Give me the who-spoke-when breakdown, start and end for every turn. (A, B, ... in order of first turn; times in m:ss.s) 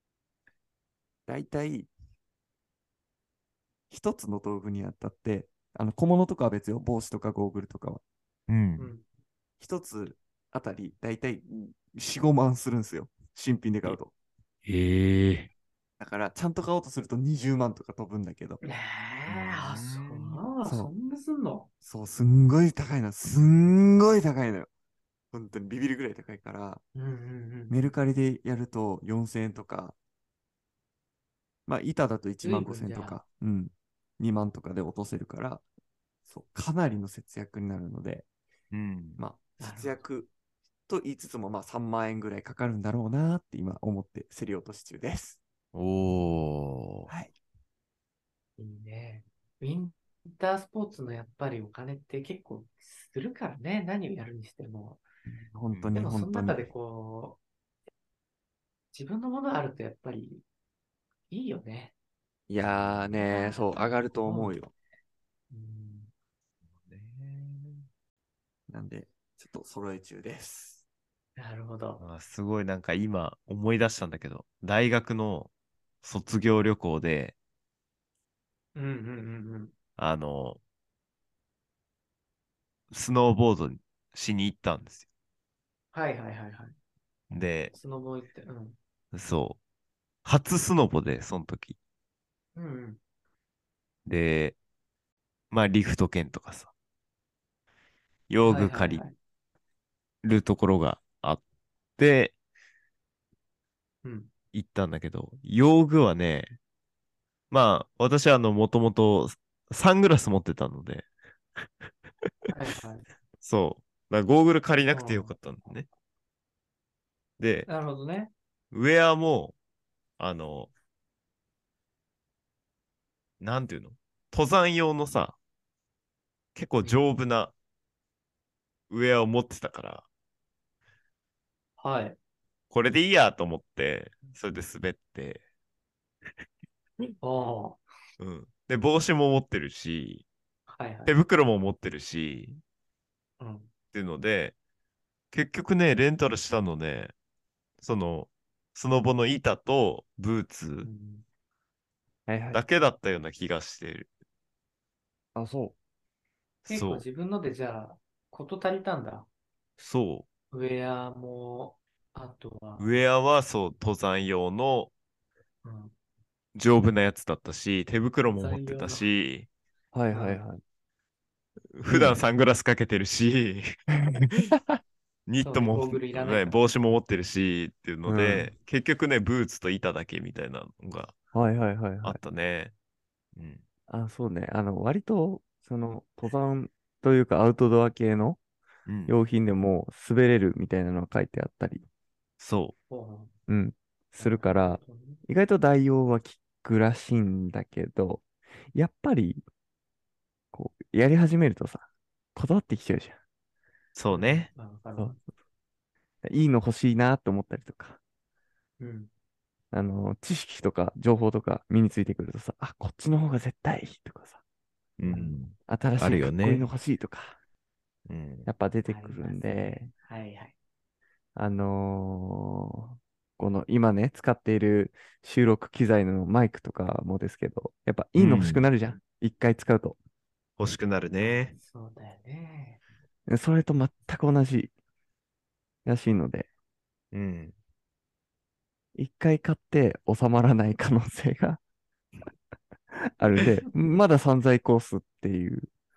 0:01.3-0:01.9 A
0:03.9-0:08.0 A
0:08.5-0:08.9 B
0:08.8-0:09.0 C
0:09.6-0:14.1 A
0:14.6-0:15.5 B
0:16.0-0:18.6 A
0:18.6-0:21.7 C
0:19.3-0:20.4 B
0:20.6-0:20.9 A
0:21.8-0:24.7 A
0:25.3-0:26.8 A
0:27.0-0:27.9 C
0:27.7-0:30.0 A
0:31.7-0:35.6 A
0:32.4-0:33.2 C
0:36.3-0:38.2 A
0:38.7-0:39.2 B
0:39.2-0:40.3 A
0:39.6-0:40.0 C
0:40.9-0:45.4 A
0:45.7-0:47.1 B
0:47.1-0:47.3 A
0:48.6-0:55.0 C
0:55.5-0:56.7 A
0:56.0-0:57.4 C
0:58.9-1:00.4 C
1:01.3-1:01.9 C
1:02.5-1:04.7 A
1:02.6-1:03.2 B
1:03.2-1:04.6 C
1:05.5-1:06.1 C
1:06.7-1:07.9 B
1:08.7-1:10.8 A
1:11.4-1:12.0 C
1:12.0-1:15.5 B
1:16.0-1:17.4 B
1:18.8-1:19.7 C
1:20.0-1:20.6 B
1:22.9-1:25.1 B
1:25.9-1:26.8 C
1:27.3-1:27.7 B
1:27.7-1:28.8 C
1:29.1-1:29.6 B
1:30.2-1:31.8 B
1:32.6-1:33.0 C
1:34.1-1:34.6 B
1:35.5-1:36.7 B
1:38.3-1:39.1 B
1:38.4-1:39.2 C
1:40.2-1:41.4 B
1:42.0-1:42.3 B
1:44.0-1:44.3 C
1:44.5-1:46.5 B
1:47.5-1:51.1 B
1:52.5-1:53.0 C
1:53.4-1:55.9 B
1:54.9-1:55.3 C
1:57.4-1:57.7 B
1:57.7-1:58.3 C
1:58.7-1:59.6 B
2:00.2-2:00.7 B
2:03.4-2:05.4 B
2:06.6-2:07.5 B
2:06.8-2:07.1 C
2:08.9-2:10.1 B
2:11.8-2:12.2 C
2:12.7-2:15.4 B
2:17.2-2:17.8 C
2:18.2-2:20.2 B
2:20.7-2:21.1 C
2:21.1-2:22.6 B
2:23.4-2:23.7 C
2:23.9-2:24.6 B
2:25.3-2:27.1 B
2:27.8-2:30.9 B
2:30.8-2:31.2 C
2:32.3-2:32.6 A
2:32.5-2:34.1 B
2:35.4-2:35.8 A
2:36.7-2:39.3 C
2:36.7-2:37.0 B
2:39.8-2:40.3 B
2:40.5-2:42.9 C
2:42.8-2:44.9 B
2:45.6-2:45.9 C
2:46.6-2:49.5 B
2:48.3-2:49.1 C
2:49.9-2:50.6 A
2:50.1-2:50.4 C
2:51.8-2:53.7 B
2:51.9-2:52.2 A
2:54.1-2:54.5 A
2:55.3-3:01.1 B
2:55.4-2:56.6 C
2:58.1-2:58.5 A
3:01.3-3:02.2 A
3:02.0-3:02.7 B
3:03.4-3:03.6 B
3:03.9-3:08.4 A
3:08.9-3:09.2 B
3:09.1-3:11.8 A
3:12.4-3:12.8 B
3:12.9-3:13.3 C
3:13.5-3:19.4 A
3:14.2-3:15.2 C
3:20.5-3:23.2 A
3:24.0-3:24.5 B
3:24.1-3:25.2 C
3:26.2-3:28.0 A
3:28.8-3:29.1 C
3:29.7-3:34.4 A
3:35.0-3:36.6 B
3:35.1-3:35.4 C
3:35.7-3:37.4 A
3:38.1-3:38.5 B
3:38.5-3:39.9 A
3:38.8-3:40.5 C
3:41.4-3:50.0 A
3:48.2-3:48.6 B
3:50.6-3:51.5 B
3:51.2-3:52.8 C
3:53.3-3:54.7 A
3:55.8-3:56.5 A
3:57.1-3:57.5 B
3:59.0-4:01.6 A
4:03.2-4:05.7 A